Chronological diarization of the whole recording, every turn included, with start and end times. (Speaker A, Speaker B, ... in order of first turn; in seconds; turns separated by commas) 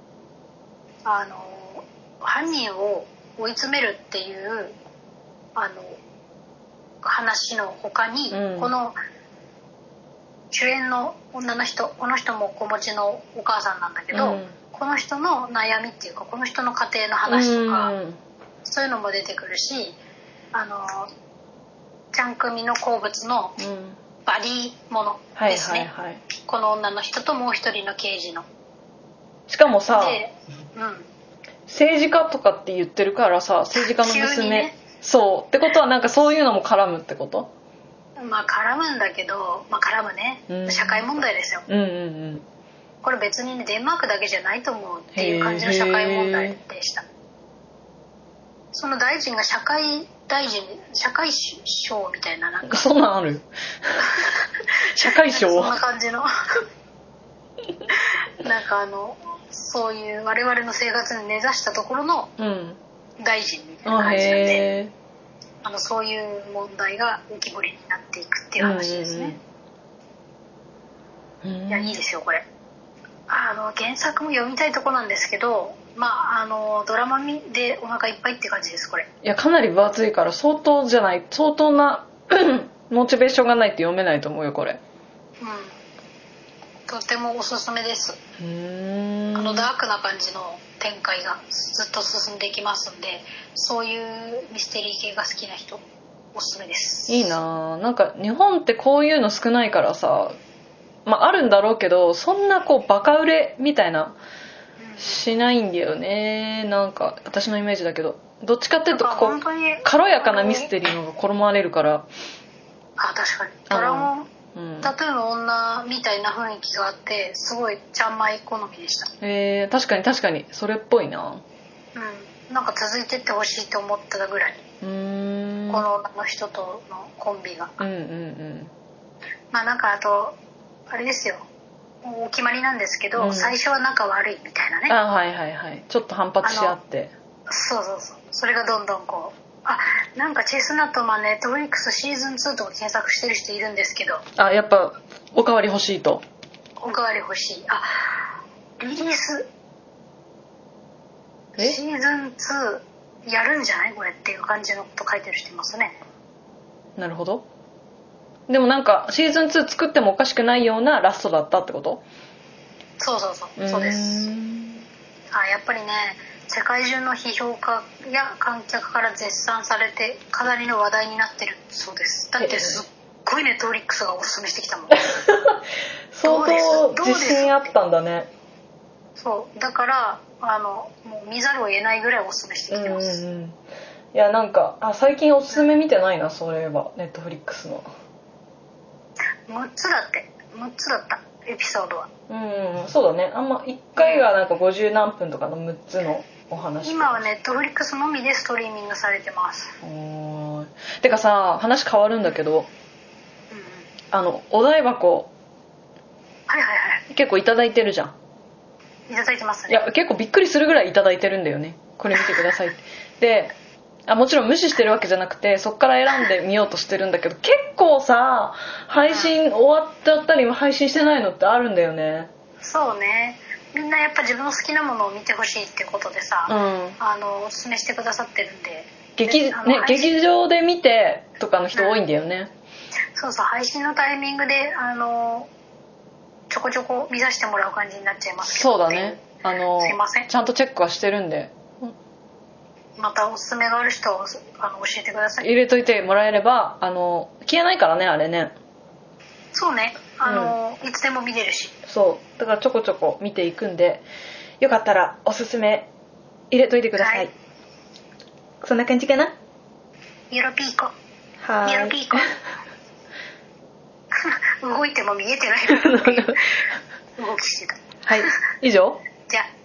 Speaker A: 1.1-4.8, Speaker A: 5.6-6.0, Speaker A: 7.0-9.0, Speaker B: 8.3-8.7, Speaker A: 10.5-17.9, Speaker B: 14.1-14.6, Speaker B: 17.3-18.2, Speaker A: 18.6-20.0, Speaker A: 20.5-21.1, Speaker A: 22.1-23.6, Speaker B: 23.6-24.0, Speaker A: 24.2-28.5, Speaker B: 25.4-26.2, Speaker B: 29.5-30.2, Speaker A: 29.9-31.1, Speaker B: 31.7-37.5, Speaker A: 33.8-34.8, Speaker A: 38.2-41.7, Speaker B: 40.5-41.0, Speaker B: 41.7-42.5, Speaker A: 43.0-47.0, Speaker B: 45.1-46.6, Speaker A: 48.7-52.9, Speaker B: 52.7-54.0, Speaker A: 54.0-54.6, Speaker B: 54.9-55.8, Speaker A: 55.2-56.3, Speaker A: 57.9-62.3, Speaker B: 62.4-62.8, Speaker A: 63.2-64.7, Speaker B: 63.9-64.9, Speaker A: 65.6-69.4, Speaker B: 68.6-69.4, Speaker B: 71.4-72.0, Speaker A: 71.7-72.5, Speaker A: 73.3-79.1, Speaker B: 79.2-84.8, Speaker A: 85.4-85.7, Speaker A: 86.9-88.2, Speaker B: 88.4-89.7, Speaker A: 89.3-95.8, Speaker A: 96.3-97.4, Speaker B: 97.1-100.4, Speaker B: 101.1-104.2, Speaker A: 104.8-105.2, Speaker B: 105.0-112.1, Speaker A: 108.9-110.7, Speaker A: 113.0-119.1, Speaker B: 113.7-114.9, Speaker B: 119.2-121.4, Speaker A: 122.0-124.6, Speaker B: 124.8-125.8, Speaker A: 125.7-127.8, Speaker B: 127.8-128.7, Speaker A: 129.5-130.4, Speaker A: 130.9-131.4, Speaker A: 132.0-135.0, Speaker B: 133.2-133.6, Speaker B: 134.9-137.1, Speaker A: 136.4-136.8, Speaker A: 137.5-144.2, Speaker B: 144.4-146.2, Speaker A: 146.8-148.2, Speaker A: 148.8-149.5, Speaker A: 151.6-156.0, Speaker B: 157.0-157.5, Speaker B: 158.5-162.0, Speaker A: 163.0-164.3, Speaker B: 163.6-164.9, Speaker A: 165.3-175.1, Speaker B: 172.4-172.8, Speaker B: 175.2-175.6, Speaker B: 176.1-178.3, Speaker A: 176.2-177.7, Speaker A: 179.2-183.2, Speaker B: 182.7-183.6, Speaker B: 184.1-187.9, Speaker A: 189.5-192.1, Speaker B: 192.3-197.3, Speaker A: 194.0-194.3, Speaker A: 196.8-199.7, Speaker B: 199.8-202.7, Speaker A: 203.5-203.9, Speaker B: 204.1-205.3, Speaker A: 206.5-207.0, Speaker B: 207.1-208.2, Speaker A: 209.1-209.8, Speaker B: 209.7-213.5, Speaker B: 214.1-222.3, Speaker A: 219.1-219.3, Speaker A: 222.6-230.2, Speaker B: 226.5-227.0, Speaker B: 229.2-232.5, Speaker A: 231.7-232.0, Speaker A: 233.2-235.5, Speaker A: 236.5-239.2, Speaker B: 238.4-241.9, Speaker A: 239.8-240.3, Speaker A: 243.0-245.5, Speaker B: 245.4-248.5, Speaker A: 249.5-251.8, Speaker B: 250.3-250.6, Speaker B: 251.9-254.0, Speaker B: 254.6-255.9, Speaker B: 256.5-257.3, Speaker A: 257.0-257.3, Speaker B: 258.6-259.4, Speaker A: 260.3-260.9, Speaker B: 261.4-262.2, Speaker A: 261.6-262.3, Speaker A: 264.1-266.6, Speaker B: 265.7-266.4, Speaker A: 267.2-268.2, Speaker B: 268.1-269.0